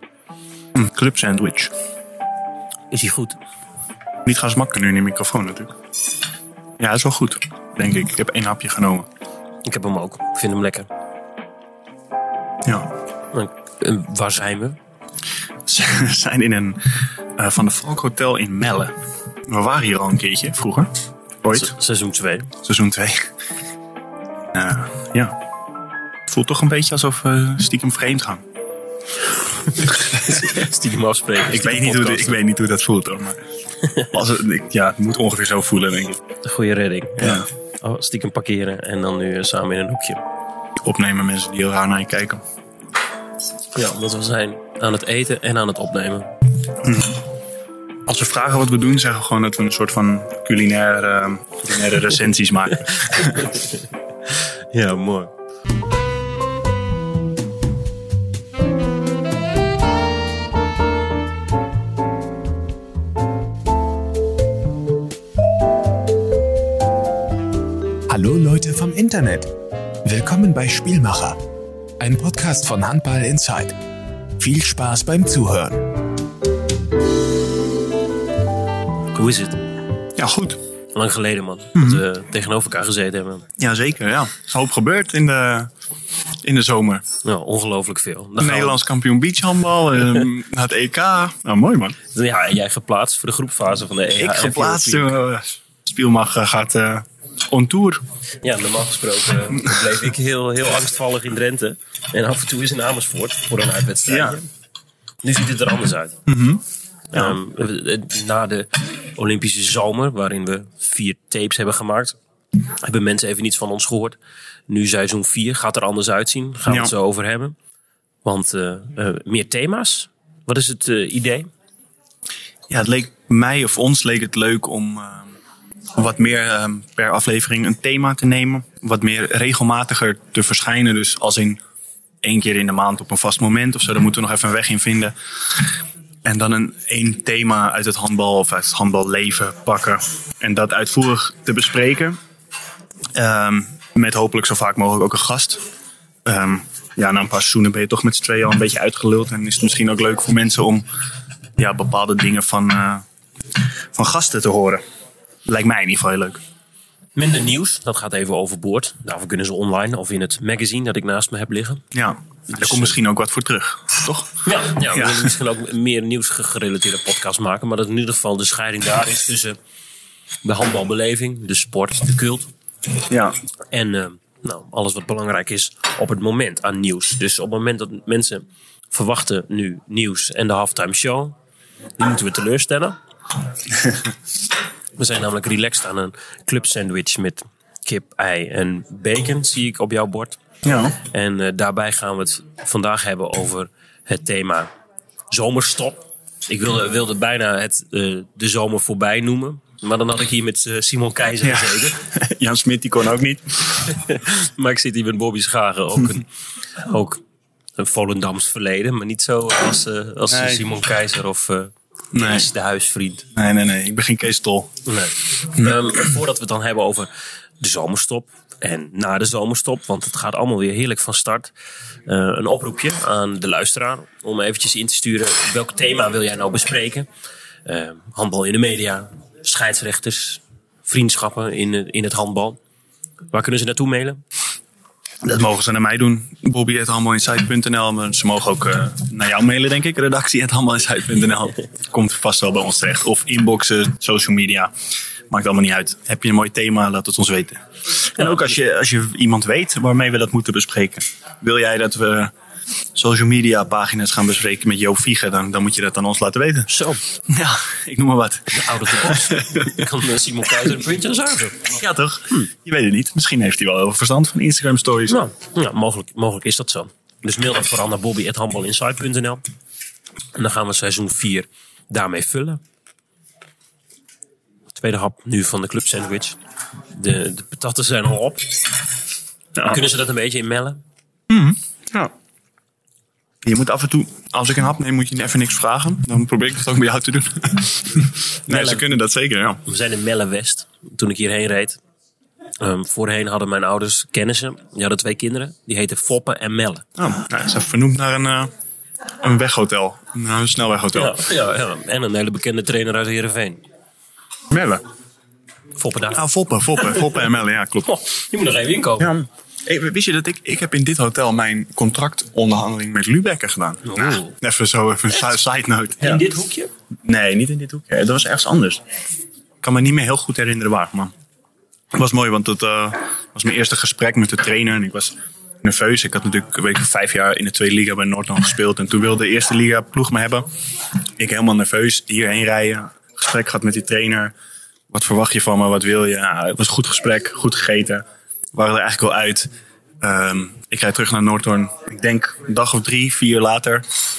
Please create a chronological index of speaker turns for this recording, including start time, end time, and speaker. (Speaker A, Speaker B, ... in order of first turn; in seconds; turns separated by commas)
Speaker A: 0.7-1.7, Speaker B: 2.9-3.4, Speaker A: 4.2-5.7, Speaker A: 6.8-9.1, Speaker B: 9.6-10.9, Speaker A: 12.6-12.9, Speaker B: 13.3-14.8, Speaker A: 15.7-18.9, Speaker A: 19.5-20.9, Speaker A: 21.4-21.7, Speaker B: 21.5-22.5, Speaker A: 22.6-23.3, Speaker A: 24.5-25.4, Speaker A: 26.3-28.4, Speaker B: 29.5-32.4, Speaker A: 29.9-30.5, Speaker A: 31.5-33.4, Speaker A: 34.0-36.2, Speaker B: 36.4-40.2, Speaker A: 37.2-37.5, Speaker A: 40.8-42.4, Speaker B: 43.7-46.3, Speaker A: 46.8-47.2, Speaker A: 48.0-53.6, Speaker B: 53.4-55.3, Speaker C: 68.1-69.5, Speaker C: 70.0-71.4, Speaker C: 72.0-73.7, Speaker C: 74.4-75.8, Speaker B: 79.1-79.6, Speaker A: 80.2-80.6, Speaker B: 80.9-83.4, Speaker A: 81.7-82.0, Speaker A: 83.6-85.7, Speaker A: 86.4-87.0, Speaker B: 87.2-88.8, Speaker A: 88.4-92.0, Speaker B: 92.1-95.2, Speaker A: 94.1-98.0, Speaker B: 98.4-104.5, Speaker A: 99.5-99.8, Speaker A: 104.0-104.4, Speaker B: 105.2-106.2, Speaker A: 106.3-106.6, Speaker B: 107.1-117.5, Speaker A: 116.7-116.9, Speaker B: 118.2-121.5, Speaker A: 122.7-125.3, Speaker A: 126.0-131.6, Speaker A: 132.2-142.2, Speaker A: 143.1-145.6, Speaker A: 146.2-150.8, Speaker A: 151.6-153.0, Speaker A: 153.9-154.8, Speaker A: 155.4-156.4, Speaker B: 157.2-161.8, Speaker A: 161.9-165.3, Speaker B: 162.5-162.9, Speaker B: 164.4-169.6, Speaker B: 170.4-172.5, Speaker A: 173.0-173.3, Speaker B: 173.7-181.3, Speaker B: 182.0-183.0, Speaker B: 185.0-190.4, Speaker A: 190.6-191.0, Speaker B: 191.0-194.7, Speaker B: 195.3-202.0, Speaker A: 201.4-204.0, Speaker B: 203.8-207.2, Speaker B: 207.8-213.3, Speaker A: 210.3-210.7, Speaker A: 212.1-212.5, Speaker A: 213.3-214.8, Speaker B: 214.8-221.5, Speaker A: 215.3-216.0, Speaker B: 222.1-227.1, Speaker B: 227.7-232.6, Speaker B: 233.3-234.2, Speaker A: 235.2-244.7, Speaker A: 245.3-252.3, Speaker A: 252.9-259.8, Speaker B: 256.7-257.0, Speaker B: 258.5-261.7, Speaker A: 261.6-265.2, Speaker B: 265.1-269.4, Speaker B: 270.3-272.6, Speaker B: 274.7-276.4, Speaker B: 276.9-278.6, Speaker A: 279.6-279.8, Speaker B: 279.6-280.8, Speaker A: 281.3-282.1, Speaker A: 283.4-289.6, Speaker B: 288.5-288.9, Speaker B: 289.6-291.8, Speaker B: 292.6-296.8, Speaker A: 296.9-298.5, Speaker A: 299.2-301.2, Speaker B: 300.9-303.6, Speaker A: 304.5-304.8, Speaker B: 305.8-306.2, Speaker A: 306.1-307.9, Speaker B: 306.8-307.2, Speaker B: 307.9-309.1, Speaker A: 309.0-316.2, Speaker B: 313.8-314.3, Speaker B: 316.0-316.7, Speaker A: 317.0-318.8, Speaker A: 319.6-321.1, Speaker A: 321.9-330.5, Speaker A: 331.2-334.3, Speaker A: 334.9-343.9